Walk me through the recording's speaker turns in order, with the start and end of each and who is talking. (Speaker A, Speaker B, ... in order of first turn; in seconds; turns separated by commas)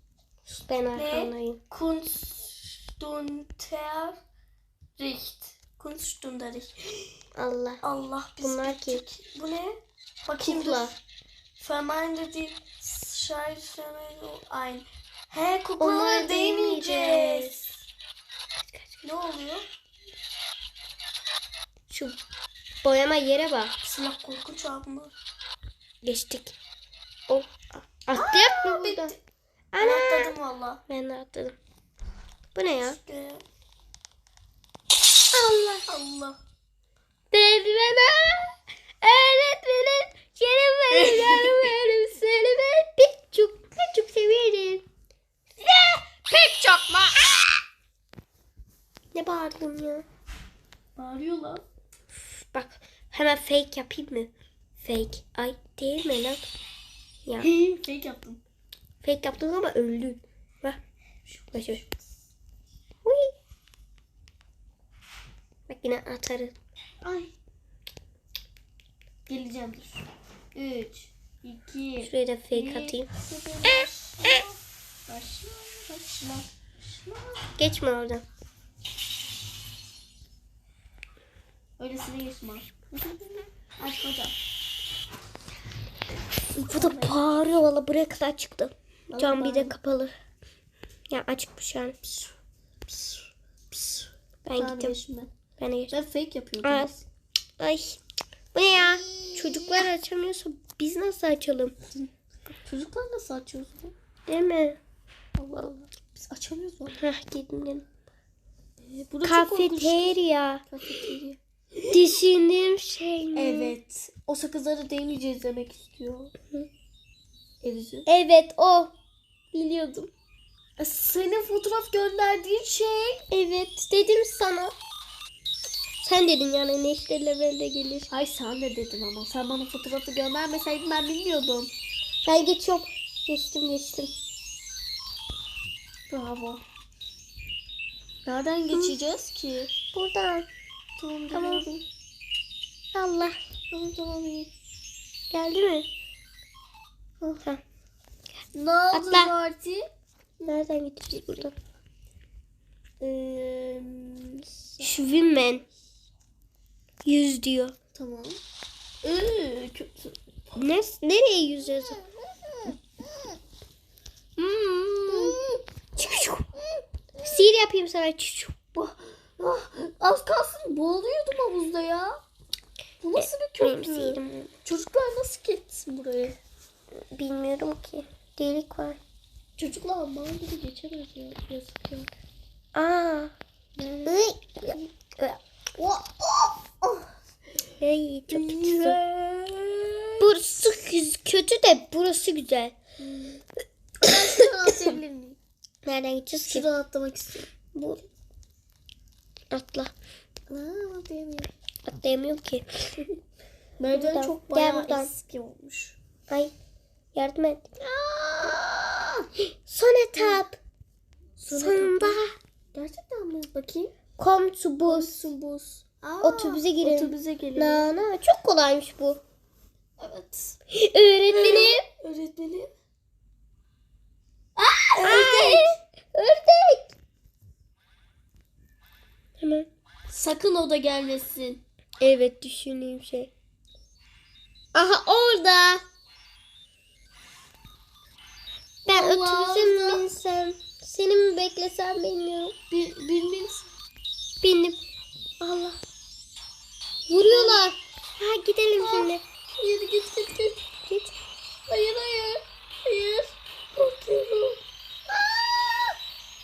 Speaker A: 0.5-1.6, Speaker B: 0.9-4.2, Speaker B: 5.0-7.2, Speaker A: 7.4-7.8, Speaker B: 7.8-11.0, Speaker A: 8.4-9.1, Speaker A: 10.4-10.9, Speaker B: 11.6-17.8, Speaker A: 15.8-17.5, Speaker B: 19.0-19.7, Speaker A: 21.9-22.2, Speaker A: 22.8-23.8, Speaker B: 23.8-25.1, Speaker A: 26.0-26.6, Speaker A: 27.3-29.1, Speaker B: 28.1-29.2, Speaker A: 29.7-30.4, Speaker B: 29.8-30.8, Speaker A: 30.9-31.6, Speaker A: 32.5-33.0, Speaker B: 32.7-33.4, Speaker A: 35.3-35.9, Speaker B: 35.9-36.4, Speaker A: 37.3-44.9, Speaker B: 41.0-41.6, Speaker B: 46.3-46.8, Speaker A: 46.3-47.5, Speaker A: 49.1-50.0, Speaker B: 51.0-51.6, Speaker A: 52.1-56.4, Speaker A: 57.2-57.5, Speaker B: 57.4-58.4, Speaker A: 59.0-60.8, Speaker B: 61.3-62.1, Speaker A: 61.5-61.8, Speaker A: 63.0-63.3, Speaker A: 65.7-66.5, Speaker B: 67.0-67.3, Speaker B: 69.3-77.6, Speaker A: 72.0-73.1, Speaker A: 77.6-78.2, Speaker B: 81.8-84.4, Speaker A: 86.6-90.1, Speaker B: 86.6-87.2, Speaker B: 89.1-89.7, Speaker A: 91.1-92.0, Speaker B: 92.9-95.3, Speaker A: 94.5-95.0, Speaker A: 95.6-96.0, Speaker B: 95.9-97.0, Speaker A: 96.6-97.0, Speaker A: 97.6-98.0, Speaker A: 98.5-101.8, Speaker B: 98.8-99.8, Speaker B: 102.5-103.9, Speaker A: 104.3-104.8, Speaker B: 105.4-107.0, Speaker A: 107.0-107.9, Speaker B: 108.8-111.4, Speaker A: 109.2-110.7, Speaker A: 111.8-113.8, Speaker B: 113.3-116.3, Speaker B: 117.6-118.1, Speaker A: 118.1-118.9, Speaker A: 119.5-120.1, Speaker B: 120.8-123.2, Speaker A: 123.3-124.7, Speaker A: 126.0-128.1, Speaker B: 128.1-131.7, Speaker A: 132.2-134.1, Speaker B: 136.1-136.6, Speaker B: 138.2-139.7, Speaker A: 138.7-139.0, Speaker A: 139.9-140.5, Speaker B: 141.0-141.8, Speaker A: 141.3-141.7, Speaker A: 142.9-143.4, Speaker B: 143.7-144.5, Speaker A: 145.3-145.9, Speaker B: 148.5-149.9, Speaker A: 148.9-149.3, Speaker A: 150.5-151.6, Speaker B: 153.0-155.5, Speaker A: 154.8-155.7, Speaker A: 157.1-157.8, Speaker B: 157.9-158.4, Speaker B: 159.0-160.6, Speaker A: 160.6-162.0, Speaker B: 162.0-163.4, Speaker A: 164.4-165.4, Speaker B: 165.1-165.6, Speaker A: 166.0-166.4, Speaker B: 166.6-167.4, Speaker A: 167.2-168.6, Speaker B: 168.8-172.2, Speaker B: 173.0-176.4, Speaker A: 173.2-174.5, Speaker A: 177.1-179.0, Speaker B: 179.6-182.1, Speaker A: 182.7-183.3, Speaker B: 183.8-184.8, Speaker A: 184.1-185.4, Speaker B: 185.8-187.1, Speaker A: 187.8-189.0, Speaker B: 188.3-190.3, Speaker A: 190.2-192.8, Speaker B: 193.0-193.4, Speaker B: 194.0-195.4, Speaker A: 195.8-196.7, Speaker B: 196.4-197.5, Speaker A: 197.7-198.0, Speaker A: 199.5-199.9, Speaker B: 200.5-201.5, Speaker A: 201.8-202.7, Speaker B: 203.8-206.0, Speaker A: 203.9-205.1, Speaker A: 206.3-206.5, Speaker A: 207.2-207.7, Speaker B: 207.8-209.3, Speaker A: 209.7-210.6, Speaker B: 210.2-210.4, Speaker B: 211.4-212.2, Speaker A: 211.5-212.3, Speaker B: 212.7-213.9, Speaker A: 214.2-215.3, Speaker B: 214.9-217.9, Speaker A: 216.2-219.2, Speaker B: 220.0-220.6, Speaker A: 220.7-221.9, Speaker B: 221.3-222.7, Speaker B: 224.6-225.8, Speaker A: 225.0-226.9, Speaker A: 229.4-229.7, Speaker B: 230.1-231.6, Speaker A: 232.0-233.3, Speaker A: 234.7-235.8, Speaker B: 238.9-240.1, Speaker A: 238.9-242.6, Speaker B: 242.7-243.7, Speaker A: 244.4-244.8, Speaker A: 245.4-245.8, Speaker A: 247.1-249.2, Speaker B: 247.2-247.7, Speaker B: 248.8-250.7, Speaker A: 250.9-251.1, Speaker B: 251.7-256.0